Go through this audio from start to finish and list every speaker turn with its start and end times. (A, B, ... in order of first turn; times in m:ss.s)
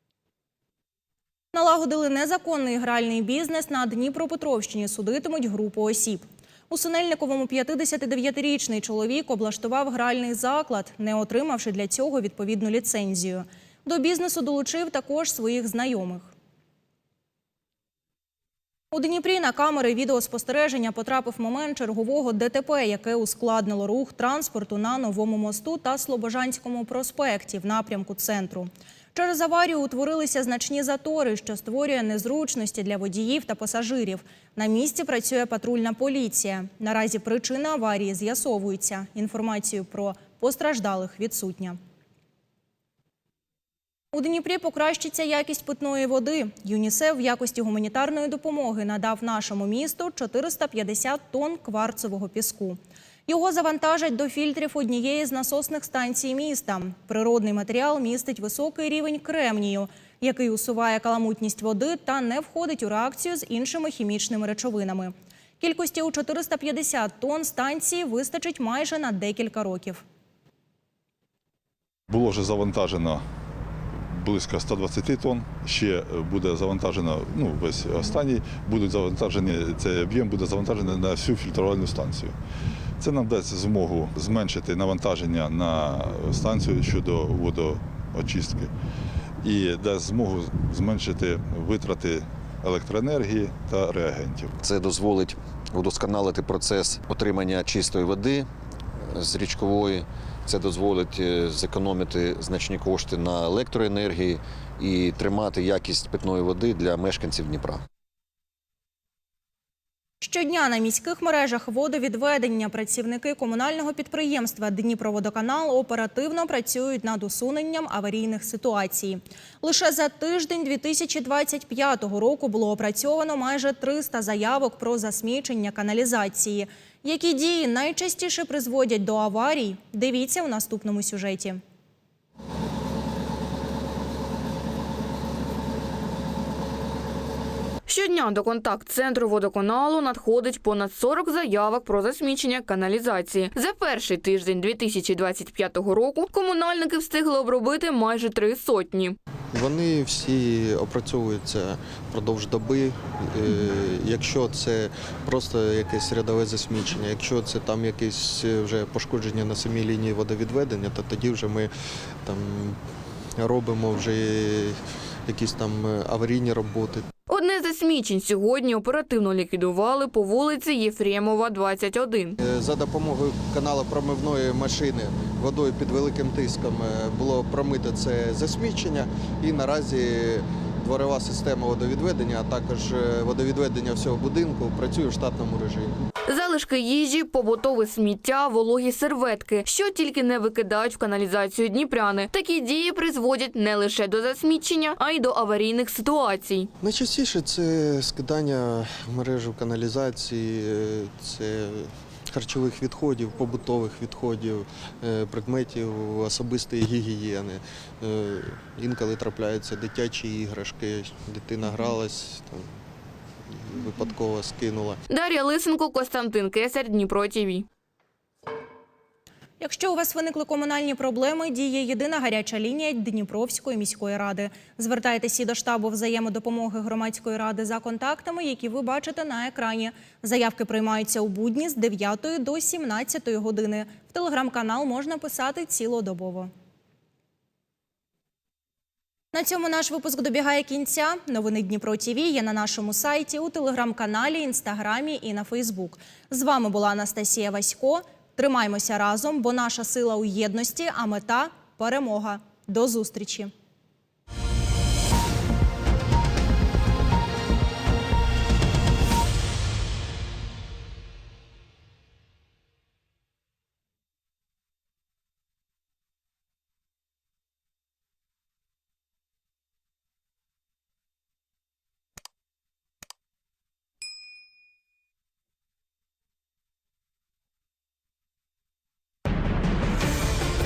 0:01.5-0:16.3 A
0:18.9-0:41.8 A
0:44.1-1:10.0 A
1:12.1-1:13.2 B
1:14.0-1:22.4 B
1:23.0-1:28.7 B
1:29.4-1:34.6 B
1:34.6-1:47.8 C
1:50.2-2:11.6 A
2:17.9-2:29.2 D
2:29.5-2:42.8 E
2:43.4-2:47.1 E
2:47.3-2:52.4 D
2:52.4-3:06.0 E
3:06.3-3:16.7 D
3:16.8-3:32.8 E
3:33.5-3:35.0 E
3:35.1-3:37.7 D
3:39.6-3:56.5 A
3:59.3-4:13.5 A